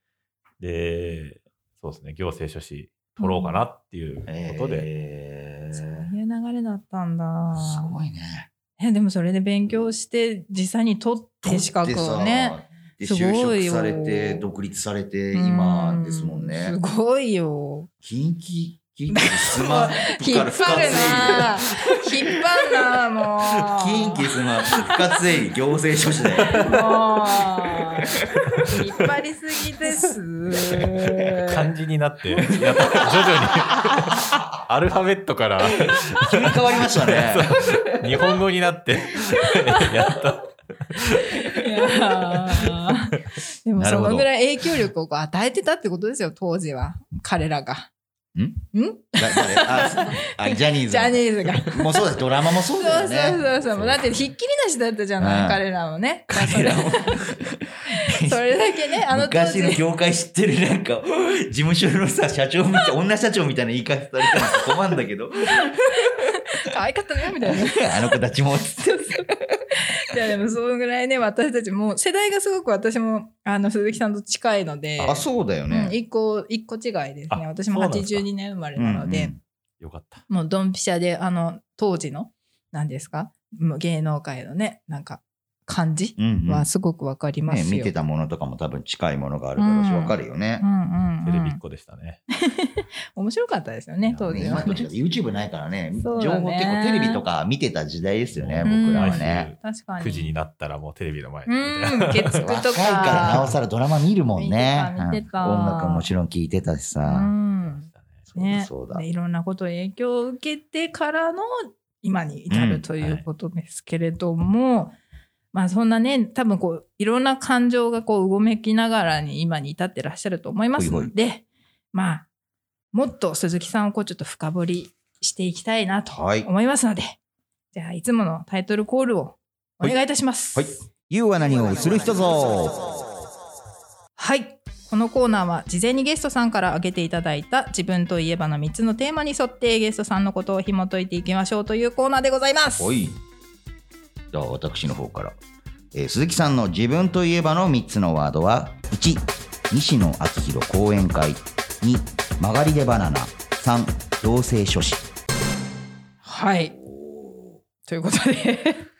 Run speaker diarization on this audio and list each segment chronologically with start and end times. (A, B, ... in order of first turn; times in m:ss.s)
0:00.6-0:04.9 A
0:03.2-0:03.6 B
0:04.3-0:06.1 C
0:05.7-0:08.0 B
0:07.5-0:08.5 C
0:08.8-0:14.4 B
0:11.4-0:16.8 C
0:15.3-0:17.9 B
0:18.0-0:21.7 C
0:19.1-0:24.3 B
0:23.6-0:26.7 C
0:26.5-0:26.7 A
0:26.5-0:31.7 B
0:28.2-0:28.7 C
0:31.4-0:41.6 A
0:32.5-0:33.4 C
0:32.6-0:33.0 B
0:33.7-0:33.9 B
0:34.2-0:34.4 C
0:35.9-0:38.2 C
0:39.4-0:39.8 B
0:41.4-0:47.9 B
0:43.8-0:44.3 C
0:48.3-0:48.6 C
0:48.7-0:59.8 B
0:49.2-0:54.1 C
0:55.2-0:55.6 C
0:56.3-1:06.2 C
1:05.5-1:08.2 B
1:07.4-1:09.3 C
1:08.8-1:19.3 B
1:15.0-1:16.0 C
1:17.3-1:18.3 A
1:18.8-1:19.4 C
1:19.8-1:20.2 A
1:20.3-1:27.9 B
1:26.2-1:26.7 C
1:27.4-1:30.6 C
1:29.6-1:31.6 B
1:31.2-1:32.2 A
1:32.4-1:34.9 B
1:34.0-1:39.5 C
1:36.0-1:37.2 B
1:38.3-1:42.5 A
1:38.6-1:40.3 B
1:41.5-1:43.5 B
1:42.4-1:47.3 C
1:43.0-1:43.6 A
1:44.4-1:46.1 B
1:47.0-1:55.0 B
1:47.6-1:48.3 A
1:48.3-1:49.0 C
1:52.5-1:52.9 C
1:53.0-1:53.2 A
1:55.5-2:02.3 B
2:00.8-2:01.1 C
2:02.9-2:07.2 B
2:06.1-2:06.5 C
2:07.7-2:10.8 B
2:10.5-2:13.0 C
2:11.5-2:12.3 B
2:14.2-2:22.9 B
2:22.8-2:23.2 C
2:24.3-2:25.4 C
2:25.9-2:35.0 C
2:36.2-2:36.8 B
2:36.8-2:37.6 C
2:37.8-2:38.8 B